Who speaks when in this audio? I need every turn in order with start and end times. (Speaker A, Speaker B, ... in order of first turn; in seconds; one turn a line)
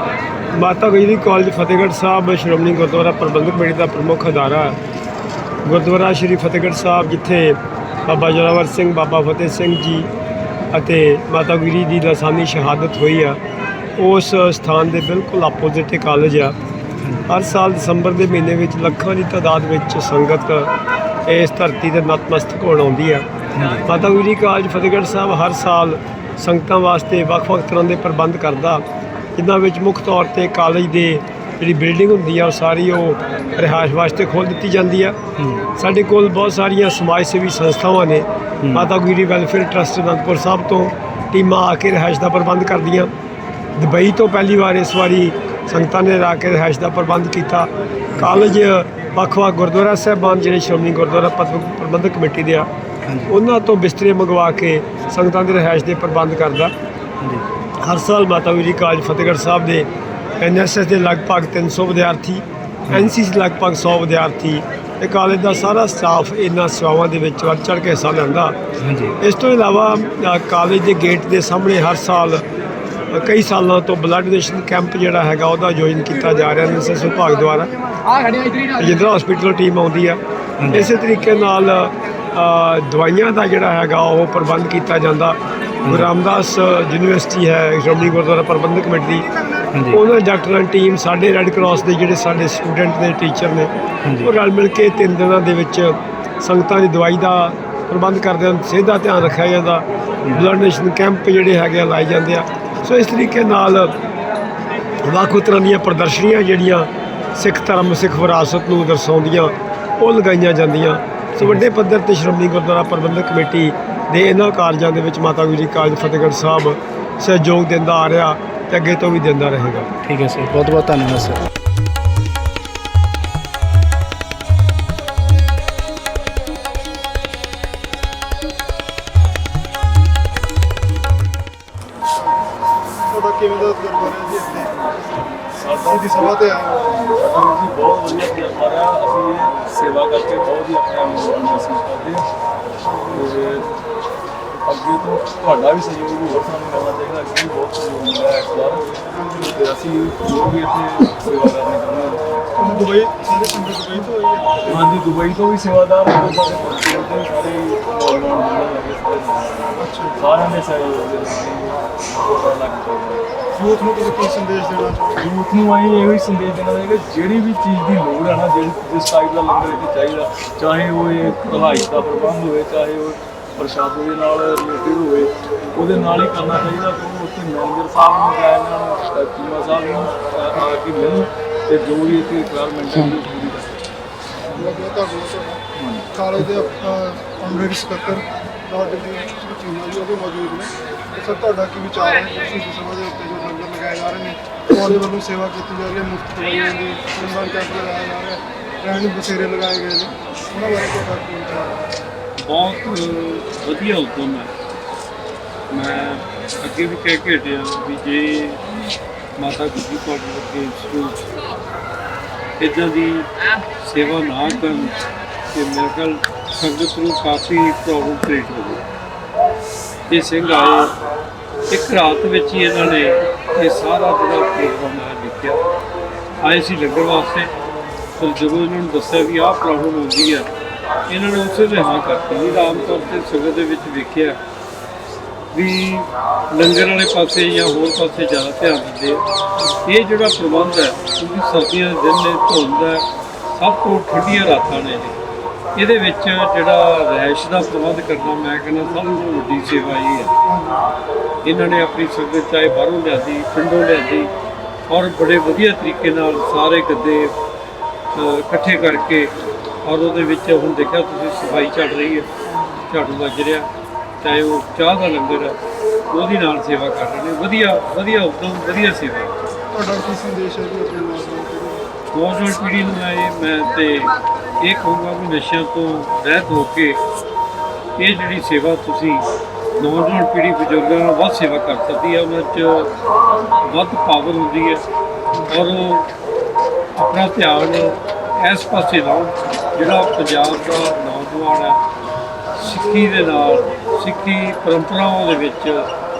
Speaker A: 0.6-4.8
Speaker A: 5.7-10.1
Speaker A: 10.7-13.4
Speaker A: 14.0-16.6
Speaker B: 17.0-17.3
Speaker A: 17.3-20.7
Speaker A: 21.3-23.3
Speaker B: 23.6-23.9
Speaker A: 23.9-28.8
Speaker A: 29.4-35.2
Speaker A: 35.8-43.1
Speaker A: 43.8-52.7
Speaker B: 53.0-53.3
Speaker A: 53.3-56.7
Speaker A: 57.8-59.9
Speaker A: 60.4-68.6
Speaker B: 68.8-69.2
Speaker A: 69.2-72.5
Speaker A: 73.1-77.7
Speaker A: 78.7-89.3
Speaker B: 80.6-80.9
Speaker B: 85.8-86.1
Speaker B: 89.7-90.0
Speaker A: 89.9-93.7
Speaker B: 94.0-94.3
Speaker A: 94.2-104.0
Speaker A: 105.0-119.9
Speaker B: 120.0-121.4
Speaker C: 132.2-132.4
Speaker C: 133.1-134.7
Speaker D: 135.5-142.3
Speaker C: 135.8-136.9
Speaker C: 142.8-143.3
Speaker D: 143.1-143.7
Speaker D: 144.6-152.9
Speaker C: 149.2-149.4
Speaker C: 152.6-154.9
Speaker D: 154.6-163.2
Speaker C: 159.8-160.2
Speaker C: 163.6-165.2
Speaker D: 165.2-183.8
Speaker C: 184.6-185.6
Speaker C: 186.1-201.8
Speaker E: 202.4-204.5
Speaker E: 205.7-208.6
Speaker E: 209.4-211.2
Speaker E: 212.6-214.9
Speaker E: 215.5-218.8
Speaker E: 220.1-220.9
Speaker E: 221.7-225.6
Speaker E: 226.4-227.5
Speaker E: 228.2-230.5
Speaker E: 231.1-234.4
Speaker E: 235.5-239.2
Speaker E: 239.8-245.2
Speaker E: 245.8-250.3
Speaker C: 250.5-250.8
Speaker E: 251.4-254.3
Speaker E: 254.9-257.3
Speaker E: 258.1-259.3
Speaker E: 259.8-262.3
Speaker C: 262.5-262.8
Speaker E: 262.9-263.7
Speaker E: 264.2-265.6
Speaker E: 266.1-269.3
Speaker C: 269.7-271.9
Speaker E: 272.1-277.0
Speaker E: 278.0-279.2
Speaker E: 279.8-282.9
Speaker E: 283.6-284.8
Speaker E: 285.5-286.1
Speaker E: 287.0-291.8
Speaker E: 292.6-295.9